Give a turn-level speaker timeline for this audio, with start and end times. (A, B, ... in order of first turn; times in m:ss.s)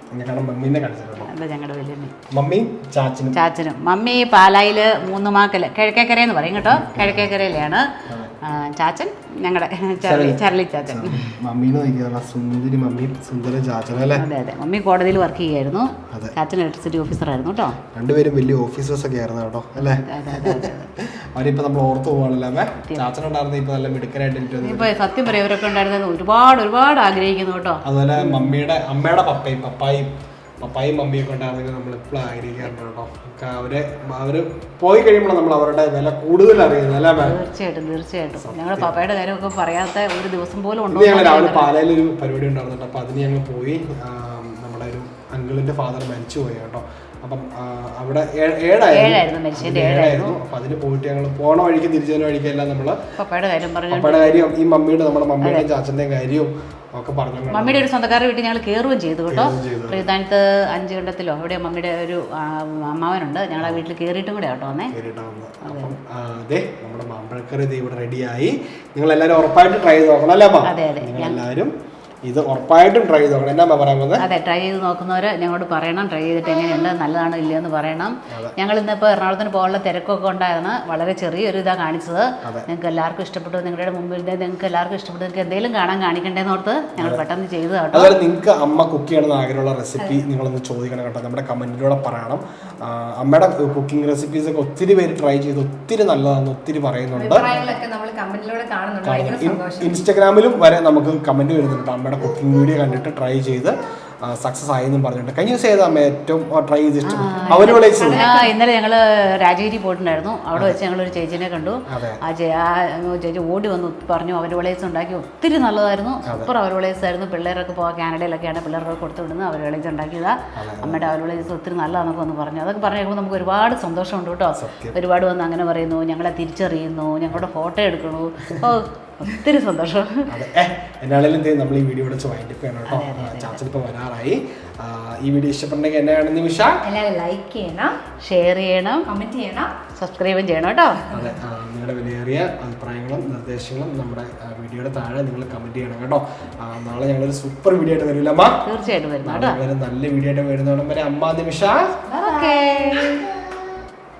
0:00.2-0:01.3 A
0:01.2-0:02.1 B
0:02.3-0:03.4 A
0:03.3-0:07.9 B
0:06.6-0:07.3 A
0:08.4-0:11.2 B
0:10.0-0:14.2 A
0:14.2-0:17.8 B
0:17.9-0:24.9 A
0:19.8-0:20.9 B
0:22.8-0:23.1 B
0:24.6-0:28.6 B
0:27.8-0:37.4 A
0:37.2-0:41.7 B
0:38.4-0:38.9 A
0:40.9-0:53.0 A
0:48.9-0:50.4 B
0:53.2-0:54.5 B
0:53.9-0:57.9 A
0:57.5-1:04.9 B
0:59.3-1:00.1 A
1:04.9-1:11.7 A
1:05.6-1:05.9 B
1:10.6-1:11.4 B
1:12.3-1:14.3 A
1:14.2-1:28.2 B
1:18.3-1:18.5 A
1:27.0-1:27.2 A
1:27.9-1:37.5 A
1:37.2-1:40.0 C
1:37.4-1:37.7 B
1:39.0-1:43.7 A
1:44.2-1:48.2 A
1:47.0-2:10.3 B
1:47.4-1:48.6 C
1:50.5-1:50.8 A
1:51.9-1:52.2 A
1:56.3-1:56.5 A
2:00.6-2:01.1 A
2:04.6-2:05.0 A
2:10.3-2:16.8 A
2:12.9-2:13.6 B
2:16.8-2:18.0 C
2:18.2-2:19.1 B
2:19.0-2:19.7 C
2:20.0-2:21.1 B
2:21.1-2:28.6 A
2:28.6-2:29.6 B
2:29.2-2:32.0 A
2:32.1-2:33.7 C
2:32.2-2:33.2 B